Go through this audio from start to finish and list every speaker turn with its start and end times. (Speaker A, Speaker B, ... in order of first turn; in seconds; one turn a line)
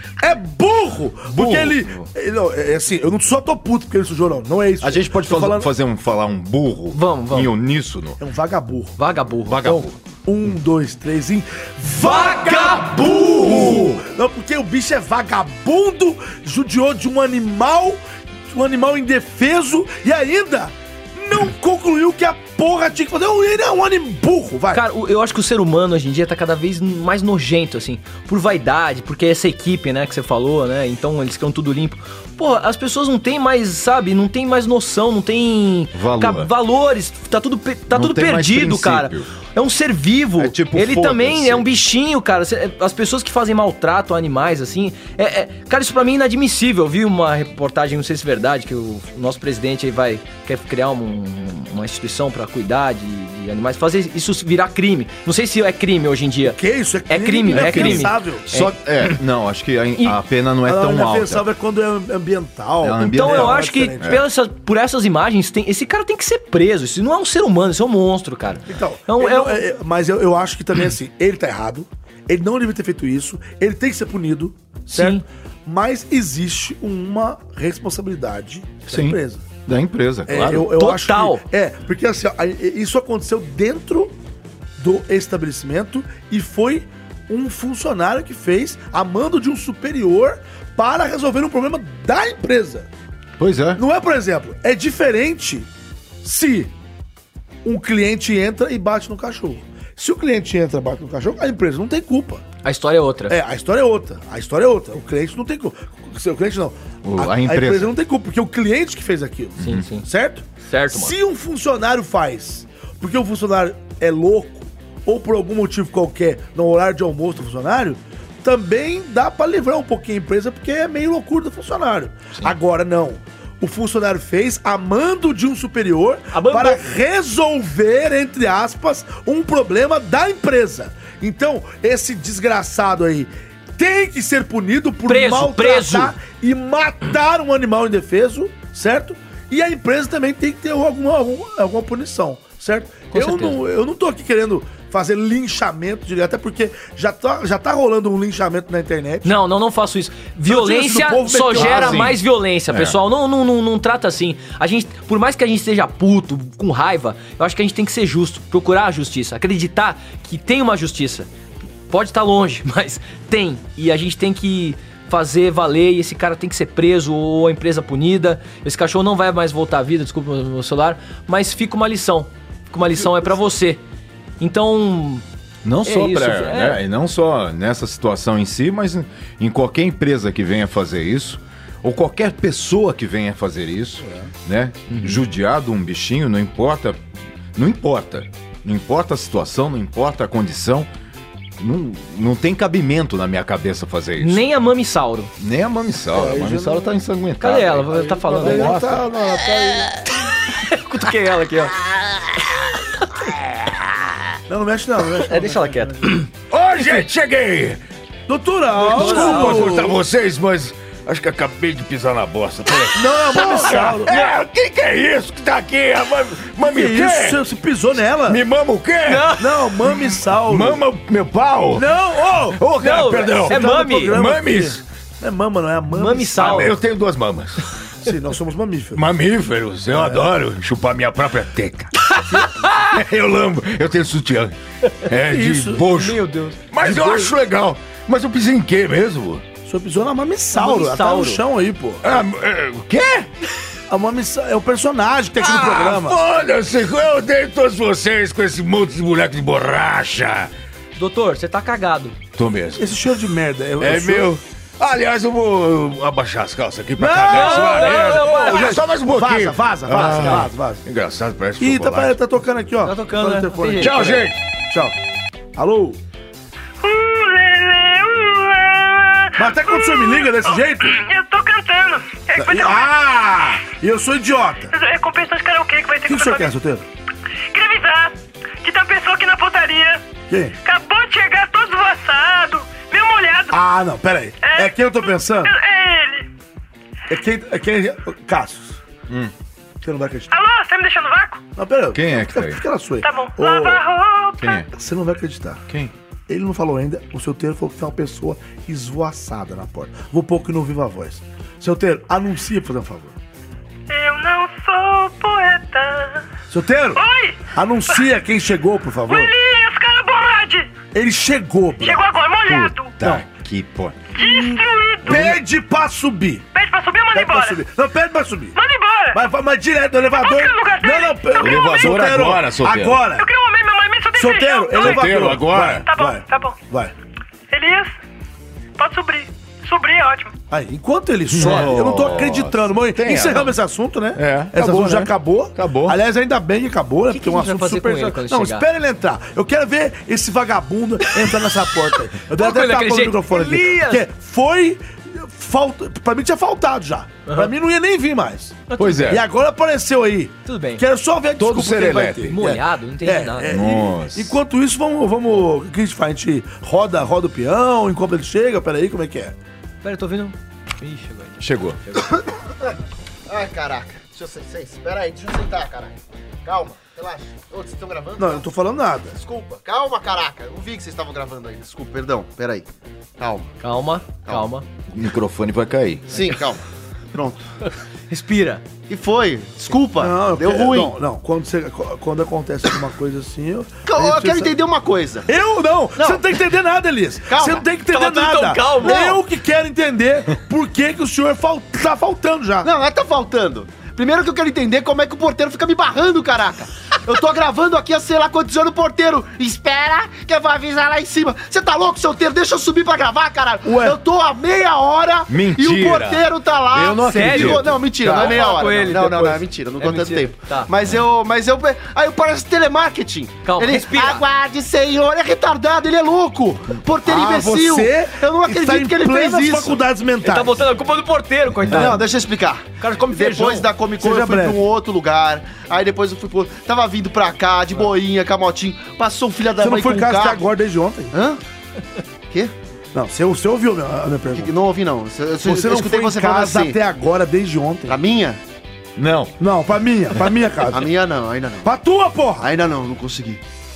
Speaker A: 0.2-5.7
Speaker B: 1.3-1.9
Speaker B: 4.8-8.2
Speaker C: 6.9-7.5
Speaker A: 8.2-9.0
Speaker C: 9.0-9.9
Speaker B: 9.5-9.9
Speaker A: 10.2-24.8
Speaker C: 12.0-13.9
Speaker B: 13.1-13.8
Speaker C: 24.7-59.2
Speaker B: 35.9-36.5
Speaker B: 37.9-39.3
Speaker B: 40.4-41.7
Speaker A: 56.4-58.5
Speaker B: 57.5-61.5
Speaker A: 60.6-64.2
Speaker B: 62.8-64.2
Speaker C: 63.0-69.7
Speaker A: 68.7-79.5
Speaker C: 74.9-75.2
Speaker B: 78.9-80.7
Speaker A: 80.3-84.1
Speaker C: 80.4-81.5
Speaker A: 84.8-92.9
Speaker B: 93.4-93.8
Speaker A: 93.8-95.7
Speaker A: 96.2-96.7
Speaker A: 97.6-102.5
Speaker C: 102.6-103.4
Speaker A: 103.3-149.4
Speaker B: 107.0-108.0
Speaker C: 109.6-110.1
Speaker C: 110.6-111.2
Speaker C: 126.3-126.8
Speaker C: 135.1-136.2
Speaker C: 143.1-143.6
Speaker C: 149.2-161.3
Speaker A: 150.5-152.1
Speaker B: 151.5-153.0
Speaker C: 161.9-173.8
Speaker C: 174.4-175.2
Speaker B: 175.6-187.0
Speaker C: 175.8-176.8
Speaker C: 184.9-185.2
Speaker B: 187.6-190.9
Speaker B: 191.6-194.5
Speaker C: 194.2-195.3
Speaker B: 195.4-199.1
Speaker A: 196.1-196.9
Speaker C: 197.4-199.0
Speaker A: 198.2-200.0
Speaker C: 200.6-201.8
Speaker A: 204.5-206.2
Speaker C: 205.2-206.3
Speaker B: 206.5-207.8
Speaker A: 208.3-210.0
Speaker C: 208.8-209.9
Speaker B: 208.8-217.4
Speaker A: 212.9-214.2
Speaker C: 213.6-214.3
Speaker A: 216.6-218.4
Speaker B: 218.3-224.8
Speaker C: 219.1-219.5
Speaker A: 219.4-220.8
Speaker A: 221.7-222.7
Speaker C: 222.7-224.2
Speaker A: 223.4-226.7
Speaker C: 225.9-226.7
Speaker B: 226.3-227.7
Speaker A: 228.0-229.1
Speaker B: 228.9-239.4
Speaker A: 229.9-230.3
Speaker C: 232.2-232.7
Speaker A: 235.3-235.8
Speaker C: 235.8-236.7
Speaker A: 236.9-237.2
Speaker A: 239.7-242.0
Speaker C: 240.6-241.4
Speaker B: 242.0-243.3
Speaker A: 243.9-246.2
Speaker B: 245.4-250.5
Speaker C: 251.0-252.2
Speaker B: 252.4-253.0
Speaker A: 252.8-254.3
Speaker B: 253.8-262.2
Speaker A: 257.0-260.8
Speaker C: 257.3-258.8
Speaker C: 260.0-260.5
Speaker A: 261.6-265.0
Speaker C: 262.8-264.3
Speaker B: 263.8-264.4
Speaker A: 265.6-266.0
Speaker D: 266.8-272.9
Speaker A: 269.4-271.0
Speaker A: 272.4-274.7
Speaker D: 274.7-276.5
Speaker A: 276.1-276.9
Speaker D: 277.5-280.0
Speaker A: 280.3-280.6
Speaker D: 280.6-283.6
Speaker A: 283.5-285.5
Speaker D: 284.4-286.3
Speaker A: 287.1-288.8
Speaker A: 289.8-290.4
Speaker D: 290.3-291.4
Speaker A: 291.6-293.8
Speaker B: 291.9-292.6
Speaker D: 293.0-294.7
Speaker B: 294.4-294.7
Speaker A: 294.7-295.6
Speaker A: 296.3-303.1
Speaker D: 303.9-306.2
Speaker A: 306.5-307.0
Speaker D: 307.0-308.1
Speaker A: 307.5-309.3
Speaker D: 309.1-310.7
Speaker A: 310.9-312.1
Speaker D: 311.8-312.9
Speaker B: 312.5-314.0
Speaker D: 314.2-315.3
Speaker A: 314.2-316.4
Speaker B: 315.1-315.4
Speaker D: 316.5-317.6
Speaker A: 317.1-318.6
Speaker D: 318.6-319.2
Speaker A: 319.1-323.3
Speaker D: 320.2-322.0
Speaker B: 321.4-323.1
Speaker D: 323.1-325.3
Speaker A: 324.2-326.9
Speaker B: 324.8-325.9
Speaker D: 325.9-326.6
Speaker D: 327.5-327.9
Speaker D: 328.8-330.3
Speaker A: 330.5-359.4
Speaker B: 331.3-333.6
Speaker B: 334.1-336.0
Speaker C: 337.1-338.7
Speaker C: 342.3-344.1
Speaker C: 347.3-347.5
Speaker C: 348.7-349.2
Speaker B: 348.8-349.2
Speaker C: 350.5-350.8
Speaker B: 351.4-352.4
Speaker C: 351.9-353.6
Speaker B: 353.4-354.4
Speaker C: 359.8-362.0
Speaker B: 361.4-361.8
Speaker E: 363.3-368.5
Speaker A: 368.2-369.1
Speaker E: 369.1-372.7
Speaker E: 373.2-373.5
Speaker C: 373.6-374.6
Speaker E: 374.2-374.5
Speaker B: 374.9-376.2
Speaker E: 376.1-376.6
Speaker E: 377.1-377.4
Speaker C: 378.1-378.6
Speaker E: 378.9-381.0
Speaker A: 380.0-384.6
Speaker E: 383.9-385.3
Speaker A: 385.3-392.7
Speaker E: 386.0-386.2
Speaker E: 387.3-387.6
Speaker C: 387.8-389.2
Speaker E: 392.6-419.8
Speaker A: 403.6-404.0
Speaker B: 405.3-407.8
Speaker C: 407.1-410.7
Speaker A: 408.0-408.4
Speaker C: 413.4-414.2
Speaker A: 417.1-420.7
Speaker C: 420.2-422.1
Speaker E: 421.7-430.5
Speaker A: 421.7-422.0
Speaker C: 422.8-423.7
Speaker A: 424.0-424.6
Speaker A: 429.6-431.1
Speaker E: 431.1-431.4
Speaker A: 432.9-434.5
Speaker E: 434.3-436.8
Speaker A: 435.4-438.0
Speaker E: 437.9-438.4
Speaker B: 439.0-439.4
Speaker A: 439.4-440.9
Speaker E: 440.7-441.7
Speaker A: 441.6-442.5
Speaker E: 442.4-443.4